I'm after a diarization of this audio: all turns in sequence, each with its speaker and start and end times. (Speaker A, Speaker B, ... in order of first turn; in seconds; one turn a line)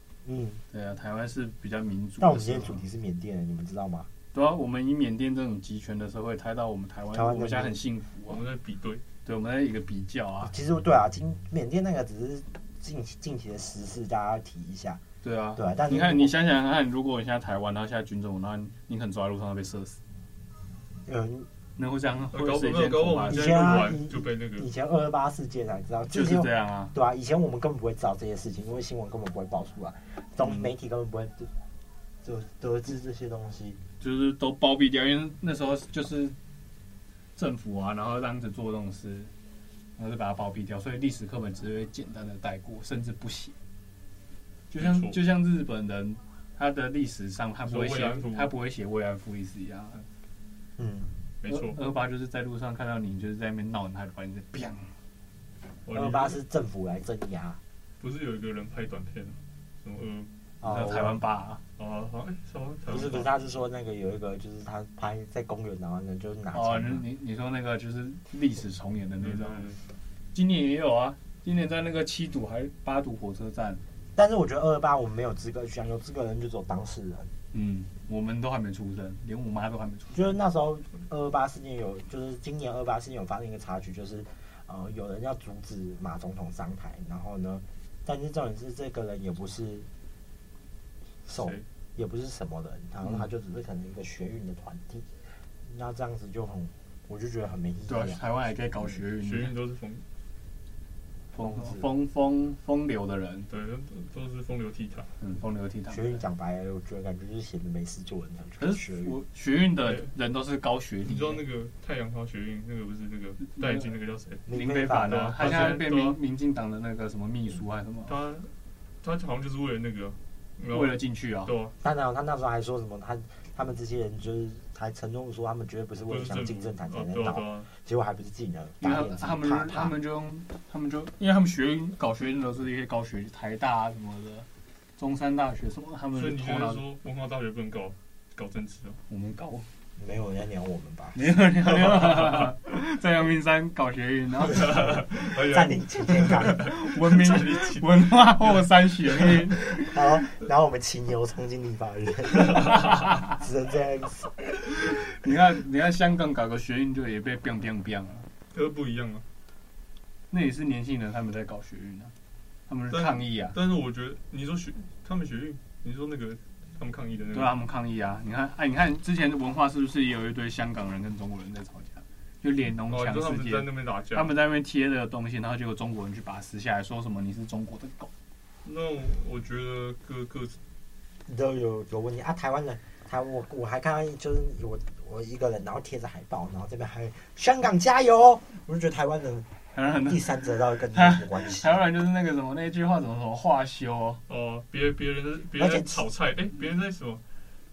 Speaker A: 0.2-0.6
Speaker B: 0.7-2.8
Speaker A: 2.2-4.1
Speaker B: 4.3-8.4
Speaker A: 7.1-7.8
Speaker C: 8.3-9.0
Speaker B: 9.2-10.5
Speaker A: 10.5-15.0
Speaker B: 15.2-20.0
Speaker A: 15.6-16.3
Speaker A: 21.1-21.5
Speaker B: 21.8-23.5
Speaker C: 22.3-24.7
Speaker A: 23.3-31.5
Speaker B: 26.1-26.9
Speaker A: 32.2-33.8
Speaker B: 34.0-36.4
Speaker B: 37.4-39.3
Speaker B: 40.0-43.5
Speaker B: 44.7-50.0
Speaker C: 44.8-45.2
Speaker C: 47.7-48.5
Speaker A: 50.8-51.1
Speaker C: 51.4-51.8
Speaker B: 51.5-54.9
Speaker C: 55.9-56.4
Speaker A: 55.9-57.6
Speaker C: 58.0-60.3
Speaker A: 60.6-61.2
Speaker B: 60.6-61.6
Speaker C: 61.8-63.3
Speaker A: 62.9-67.0
Speaker B: 66.5-69.7
Speaker C: 69.2-69.8
Speaker B: 70.3-73.8
Speaker A: 74.2-77.3
Speaker B: 77.5-80.3
Speaker A: 80.1-89.9
Speaker A: 91.3-98.2
Speaker C: 91.4-91.7
Speaker B: 97.9-99.6
Speaker C: 99.2-100.0
Speaker B: 101.3-103.5
Speaker A: 101.4-101.9
Speaker C: 103.5-105.1
Speaker B: 105.2-106.1
Speaker A: 105.9-109.1
Speaker B: 108.6-111.4
Speaker C: 109.8-110.1
Speaker C: 111.0-114.5
Speaker B: 113.6-113.9
Speaker A: 114.5-115.3
Speaker B: 114.5-118.2
Speaker C: 115.0-116.2
Speaker C: 118.1-121.8
Speaker B: 120.7-121.5
Speaker A: 121.8-130.0
Speaker C: 126.1-127.7
Speaker B: 128.8-136.8
Speaker C: 136.1-139.0
Speaker B: 139.1-139.7
Speaker A: 140.0-141.2
Speaker B: 141.2-144.9
Speaker C: 141.9-142.5
Speaker C: 144.5-148.6
Speaker A: 144.6-146.7
Speaker B: 146.5-149.9
Speaker A: 149.8-154.6
Speaker B: 155.2-158.3
Speaker C: 158.5-159.3
Speaker B: 160.3-162.1
Speaker B: 162.7-163.6
Speaker C: 162.9-167.6
Speaker B: 167.3-178.1
Speaker C: 172.9-174.3
Speaker C: 178.6-180.6
Speaker A: 181.3-189.5
Speaker B: 189.7-190.4
Speaker A: 190.1-191.8
Speaker B: 190.9-194.2
Speaker C: 194.3-197.2
Speaker A: 195.6-196.1